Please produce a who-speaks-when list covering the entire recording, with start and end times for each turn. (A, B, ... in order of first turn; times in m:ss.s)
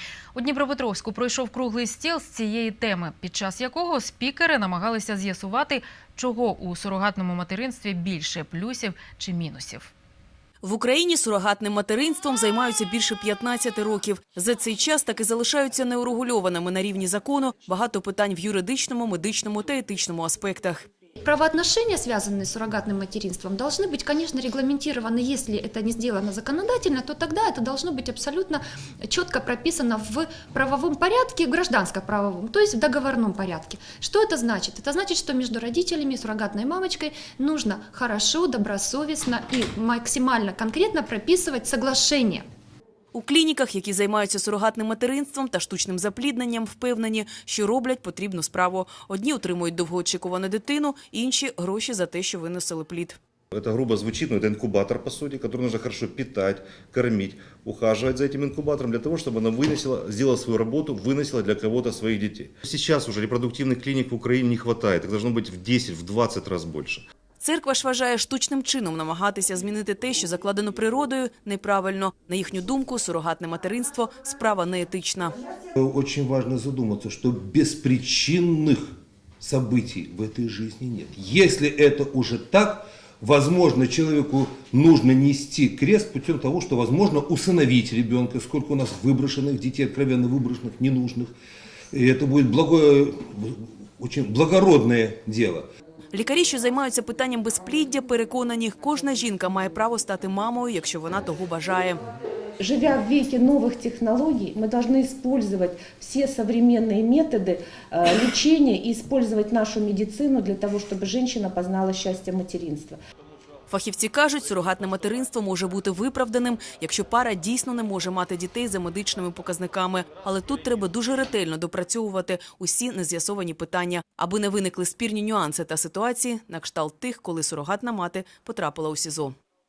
0:00.3-0:09.9 A
0:10.6-0:20.8 B
0:21.2-0:42.4 C
0:43.1-0:53.2 B
0:53.5-1:07.0 D
1:07.4-1:15.4 B
1:15.8-1:31.3 E
1:31.9-1:35.7 E
1:36.1-1:42.0 B
1:42.6-1:53.0 F
1:53.7-2:09.4 B